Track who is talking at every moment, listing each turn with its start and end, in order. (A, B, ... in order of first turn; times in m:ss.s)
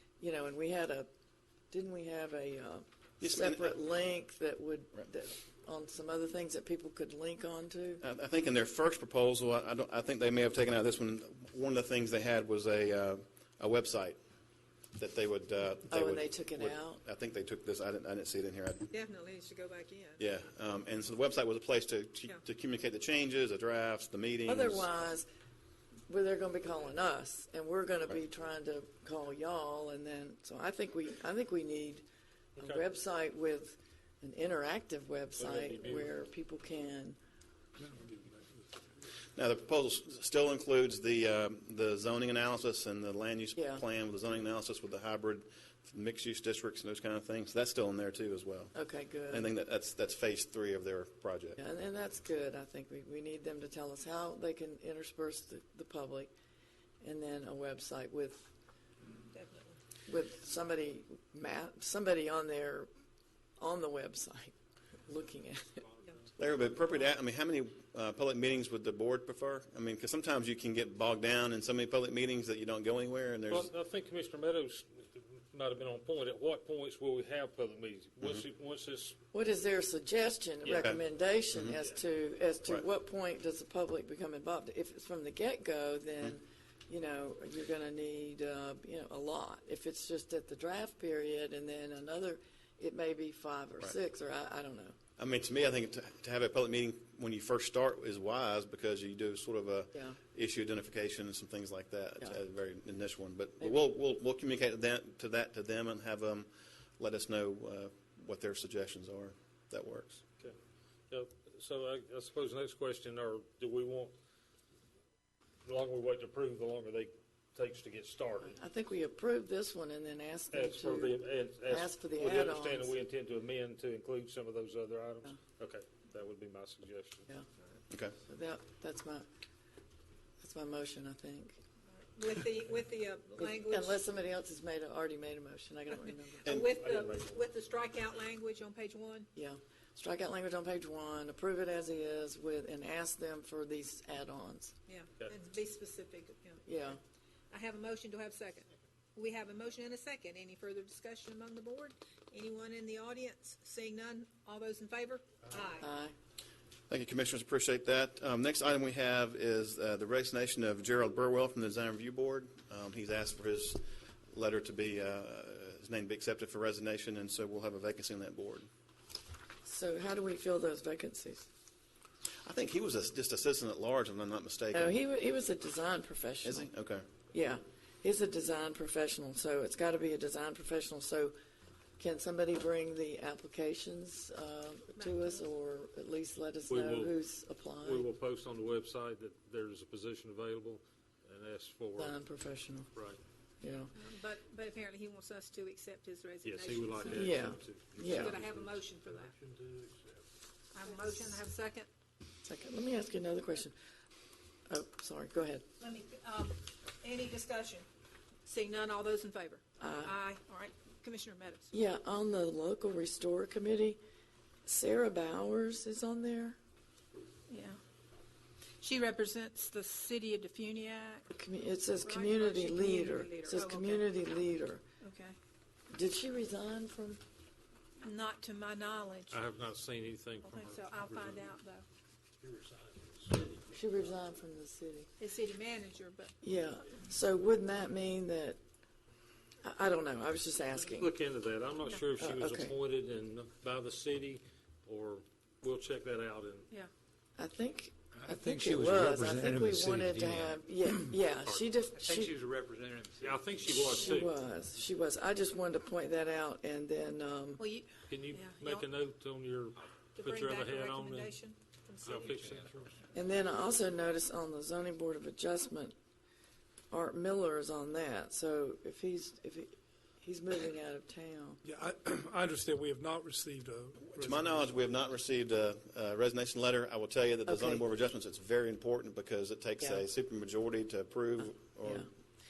0:00.2-0:01.1 A
0:01.7-0:08.0 A
0:03.2-0:03.8 B
0:08.0-0:14.2 B
0:15.0-0:18.9 B
0:15.9-0:17.0 A
0:18.9-0:20.2 C
0:20.2-0:24.9 B
0:24.4-0:25.3 A
0:26.1-0:32.0 A
0:32.6-0:32.8 D
0:32.6-0:37.2 A
0:35.4-0:36.2 D
0:39.3-0:48.7 B
0:43.6-0:43.8 A
0:48.7-0:49.5 A
0:49.3-0:51.6 B
0:51.6-0:56.3 A
0:57.0-0:58.5 A
0:59.3-0:59.8 C
1:00.1-1:02.9 A
1:03.6-1:05.8 A
1:06.4-1:13.7 B
1:13.5-1:19.2 D
1:19.3-1:35.0 A
1:35.2-1:50.2 B
1:39.9-1:40.2 A
1:51.1-1:54.1 D
1:55.6-1:58.6 D
1:58.4-2:02.9 A
2:00.5-2:07.3 D
2:08.2-2:09.2 A
2:10.4-2:11.6 A
2:11.9-2:14.0 C
2:13.4-2:16.5 A
2:16.4-2:19.3 C
2:16.7-2:17.4 D
2:19.3-2:24.7 A
2:24.9-2:26.6 C
2:26.6-2:27.0 A
2:27.5-2:35.9 C
2:35.8-2:36.1 A
2:36.9-2:48.7 B
2:49.6-2:51.5 A
2:52.4-2:55.0 B
2:54.7-2:56.7 A
2:56.4-2:57.1 B
2:57.3-3:01.3 A
3:02.0-3:08.1 A
3:04.9-3:05.5 C
3:06.7-3:07.2 D
3:07.8-3:12.2 D
3:12.0-3:12.9 A
3:13.6-3:13.9 A
3:13.9-3:17.3 C
3:16.4-3:20.2 D
3:17.1-3:18.4 A
3:18.0-3:19.3 C
3:20.7-3:21.9 C
3:22.4-3:23.7 A
3:24.7-3:25.6 A
3:25.8-3:27.9 C
3:28.4-3:31.8 C
3:29.8-3:30.1 A
3:31.7-3:34.0 A
3:34.6-3:36.6 A
3:37.5-3:37.8 C
3:38.8-3:41.3 C
3:41.3-3:44.8 A
3:42.0-3:44.1 C
3:45.0-3:45.4 C
3:45.9-3:47.2 A
3:48.0-3:49.4 C
3:49.3-3:51.6 D
3:50.4-3:51.8 C
3:52.4-3:53.1 D
3:53.6-3:55.1 A
3:55.2-3:56.3 C
3:56.4-3:58.6 A
3:59.6-4:01.1 A
4:00.8-4:06.7 D
4:02.2-4:02.7 A
4:07.4-4:12.4 A
4:08.1-4:10.6 E
4:12.0-4:13.8 E
4:13.2-4:14.3 D
4:13.9-4:17.6 A
4:17.6-4:18.9 C
4:18.1-4:21.4 D
4:20.2-4:22.4 C
4:22.0-4:22.9 D
4:22.2-4:22.9 E
4:23.1-4:26.0 A
4:26.9-4:31.6 A
4:31.6-4:34.8 F
4:34.1-4:42.1 B
4:37.4-4:37.8 A